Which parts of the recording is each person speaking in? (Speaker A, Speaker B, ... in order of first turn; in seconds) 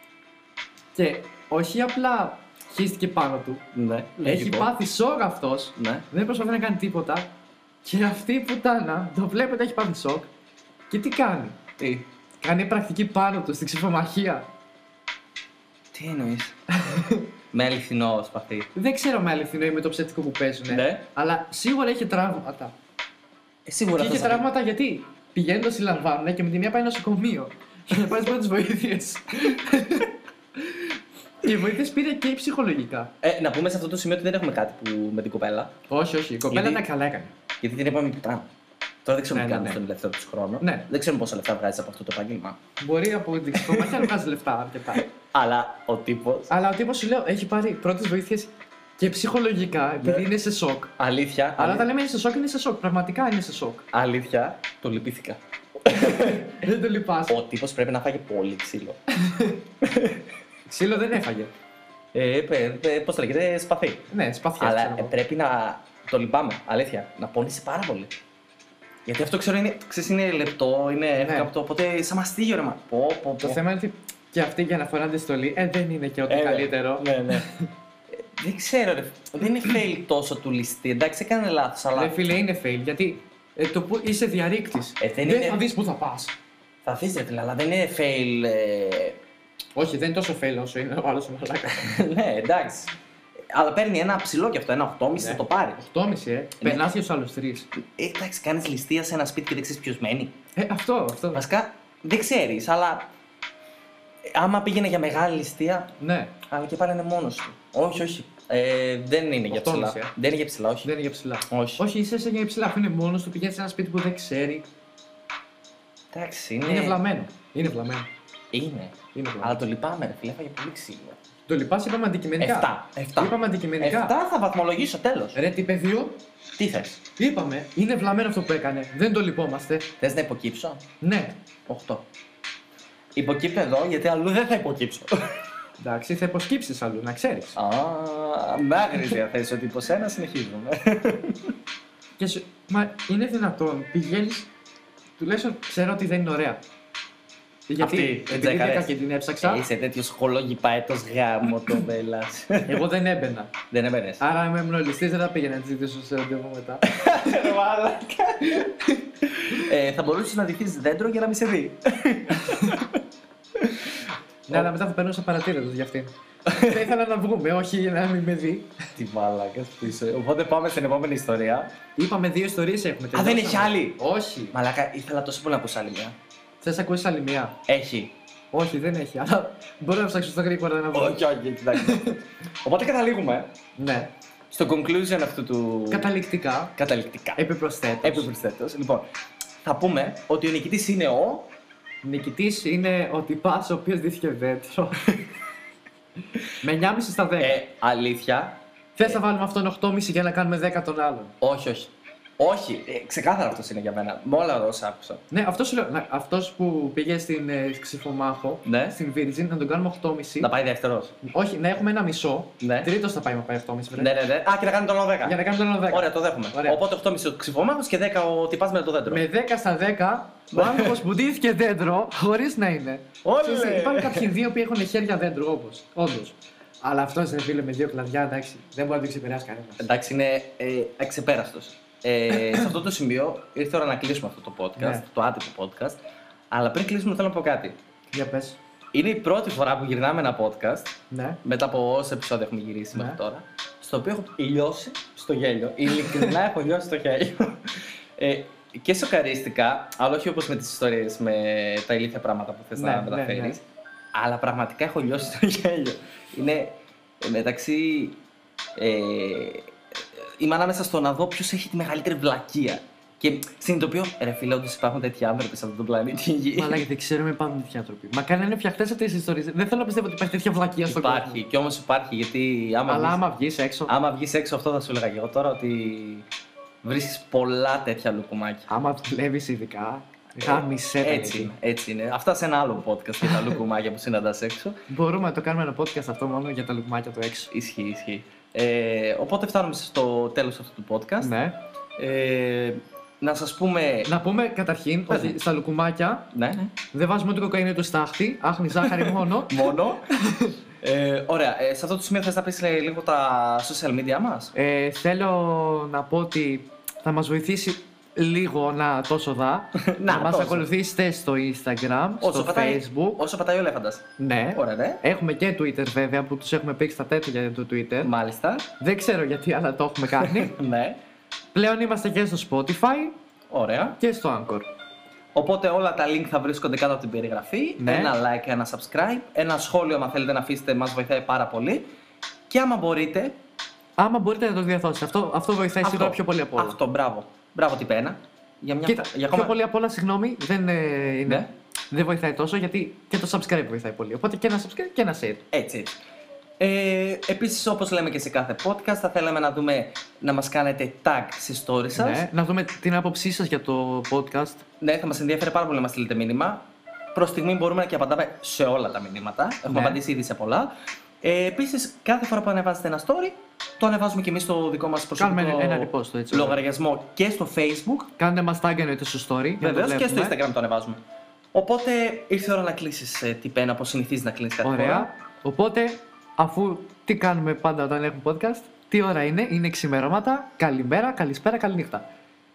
Speaker A: 0.9-3.6, 4.2-7.3, 7.8-10.3, 10.9-11.6, 12.4-14.4, 16.7-17.3, 18.7-22.7, 23.9-30.9, 31.4-33.1, 35.9-37.3, 39.3-39.8, 40.6-40.9, 42.8-45.0, 46.5-50.9, 51.6-53.9, 55.9-57.4, 59.1-59.6, 60.7-61.5, 64.1-65.1, 71.2-71.5, 73.4-77.6, 81.9-86.3, 89.7-91.9, 95.2-97.7, 100.5-101.4, 106.0-106.3, 109.5-110.1, 110.8-114.6, 116.6-118.1, 119.1-119.6, 121.5-124.1, 125.3-126.2, 127.2-129.9, 131.0-131.4, 135.8-137.6, 142.2-144.5, 145.2-146.6, 147.7-149.7, 152.7-153.5, 154.2-157.5, 158.6-159.0, 162.4-162.8, 164.5-168.7, 171.9-174.5, 176.6-177.6, 178.5-182.2, 183.8-184.1, 185.9-186.7, 187.4-188.3, 192.0-195.1, 196.6-197.6, 199.0-201.3, 205.3-210.5, 211.2-214.1, 215.2-216.8, 219.1-229.8, 234.8-235.0, 238.1-238.6, 241.1-241.4, 242.9-243.2, 252.8-253.6, 266.5-271.4, 272.9-273.9, 278.7-281.5, 284.9-287.5, 291.2-291.6, 294.1-296.3, 296.9-300.6, 304.5-313.2, 314.2-318.1, 318.8-320.6, 321.5-323.1, 324.0-324.7, 327.8-328.1, 334.0-336.8, 338.8-345.4, 351.9-354.6, 359.7-360.0, 365.2-366.6, 368.2-370.4, 374.6-382.1
Speaker B: 3.7-4.7, 5.8-6.0, 11.8-12.1, 15.9-16.5, 17.5-18.7, 20.7-21.0, 23.6-24.5, 33.2-35.7, 36.5-36.8, 37.6-38.5, 39.0-42.6, 43.6-44.0, 44.9-46.5, 51.0-51.9, 53.9-56.5, 57.3-59.0, 59.8-60.2, 62.1-64.1, 64.6-68.1, 69.0-73.6, 76.3-77.5, 78.1-82.3, 85.0-85.6, 86.8-89.2, 91.7-92.9, 93.5-95.8, 97.7-100.3, 101.3-103.1, 104.2-110.9, 111.5-111.8, 116.1-117.0, 118.5-121.2, 122.4-125.4, 126.6-127.0, 130.0-130.8, 131.7-132.0, 133.2-135.1, 137.6-141.5, 147.8-148.9, 149.4-152.8, 153.7-154.2, 156.8-158.7, 159.2-163.0, 163.6-163.9, 166.4-166.8, 169.0-171.7, 173.1-174.0, 174.5-176.2, 177.7-178.1, 180.9-183.5, 184.5-186.1, 186.8-187.4, 188.0-189.1, 189.6-191.5, 197.4-199.2, 201.4-205.2, 208.6-209.0, 210.4-211.1, 212.6-212.9, 213.9-219.2, 220.5-221.0, 223.2-224.3, 229.8-236.0, 236.5-237.8, 238.9-258.2, 258.8-266.8, 270.9-273.2, 273.9-276.2, 276.8-278.7, 280.4-284.8, 287.5-291.3, 292.0-294.1, 295.1-295.4, 296.3-296.7, 298.8-300.1, 300.8-304.5, 309.8-310.6, 312.2-315.0, 318.0-318.7, 320.1-321.0, 323.5-324.0, 325.3-331.9, 332.5-333.3, 335.8-339.5, 345.5-345.9, 346.6-352.2, 354.8-368.1, 369.6-371.0, 371.5-375.1